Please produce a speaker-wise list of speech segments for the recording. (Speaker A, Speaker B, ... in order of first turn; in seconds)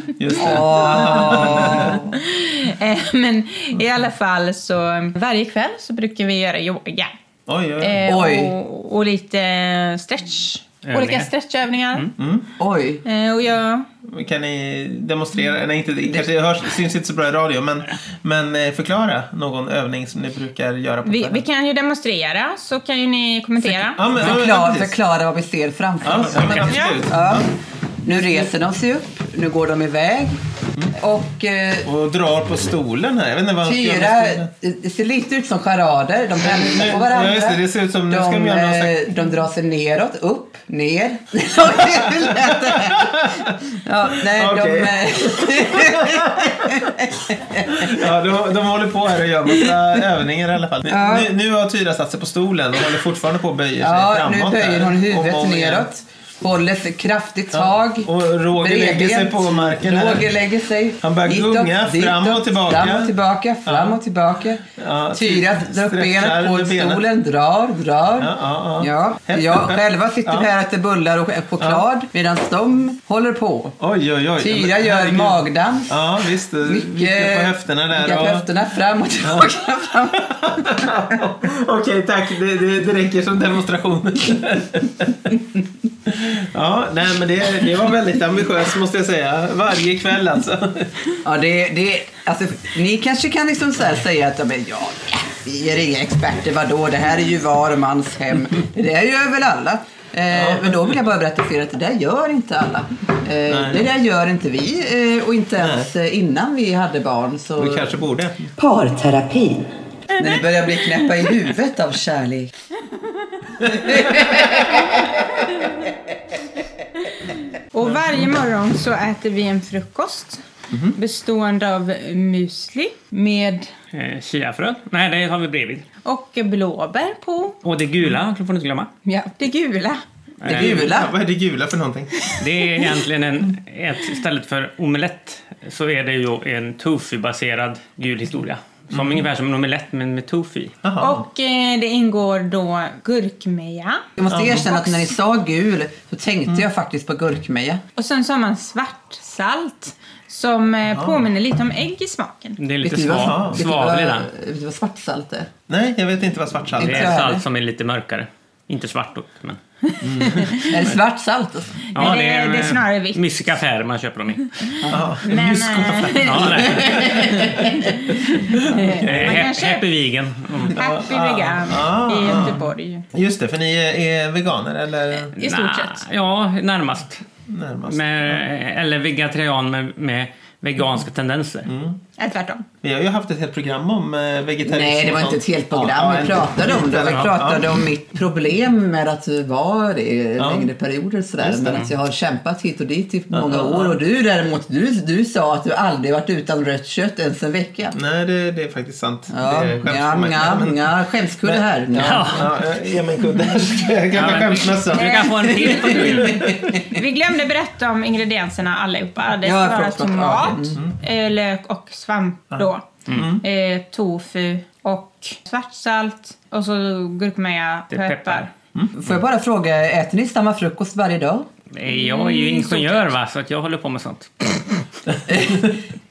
Speaker A: 0.2-2.0, 7.5-8.0, 12.2-12.5, 14.1-21.4, 23.9-24.9, 26.0-27.5, 31.8-34.5, 36.4-39.2, 42.2-43.1, 44.2-46.9, 47.7-55.9, 57.5-60.3, 61.0-63.1, 63.6-64.0, 64.7-67.0, 68.2-70.5, 71.6-71.8, 73.8-78.5, 79.2-79.5, 80.3-85.4, 86.1-91.0, 100.3-100.9, 103.5-103.9, 105.6-105.9, 107.6-108.5, 120.7-121.0, 130.5-132.1, 138.9-139.3, 140.8-141.3, 144.3-144.7, 150.9-151.3, 153.2-153.6, 155.7-157.2, 160.0-160.5, 164.9-167.7, 168.5-169.5, 170.8-175.3, 177.5-178.4, 181.7-182.0, 182.8-187.9, 190.4-190.7, 191.4-191.8, 193.3-194.0, 197.9-200.9, 201.4-206.5, 212.5-213.4
Speaker B: 0.4-2.1, 8.0-8.5, 12.6-13.0, 23.6-27.5, 28.0-30.4, 30.9-31.9, 33.6-48.1, 49.5-49.9, 50.9-51.3, 53.8-73.8, 74.4-81.2, 91.2-108.0, 108.6-112.5, 113.6-115.4, 130.4-131.1, 144.2-147.8, 152.8-155.5, 156.8-157.4, 160.7-161.8, 164.8-165.2, 166.6-167.3, 184.7-198.0, 199.3-202.5, 205.3-206.8, 209.4-210.8, 218.9-221.4, 225.3-225.8
Speaker C: 0.6-7.1, 7.8-12.1, 13.0-13.9, 21.0-24.2, 26.6-27.1, 117.7-123.7, 126.0-127.6, 129.0-130.0, 132.2-132.4, 141.0-145.1, 148.0-152.6, 160.5-160.8, 161.9-163.6, 165.2-169.8, 170.7-173.1, 175.3-176.0, 182.2-182.7, 204.9-206.1, 206.7-218.5, 222.1-223.0
Speaker D: 10.8-11.3, 123.9-125.8, 127.6-128.9, 130.4-131.0, 132.4-140.8, 152.6-154.3, 156.8-159.6, 160.2-160.9, 161.9-164.8, 166.1-167.3, 169.0-170.8, 172.3-172.6, 175.3-177.2, 177.9-181.7, 201.9-202.7, 204.1-206.7, 213.1-213.4, 217.9-218.5, 221.7-224.8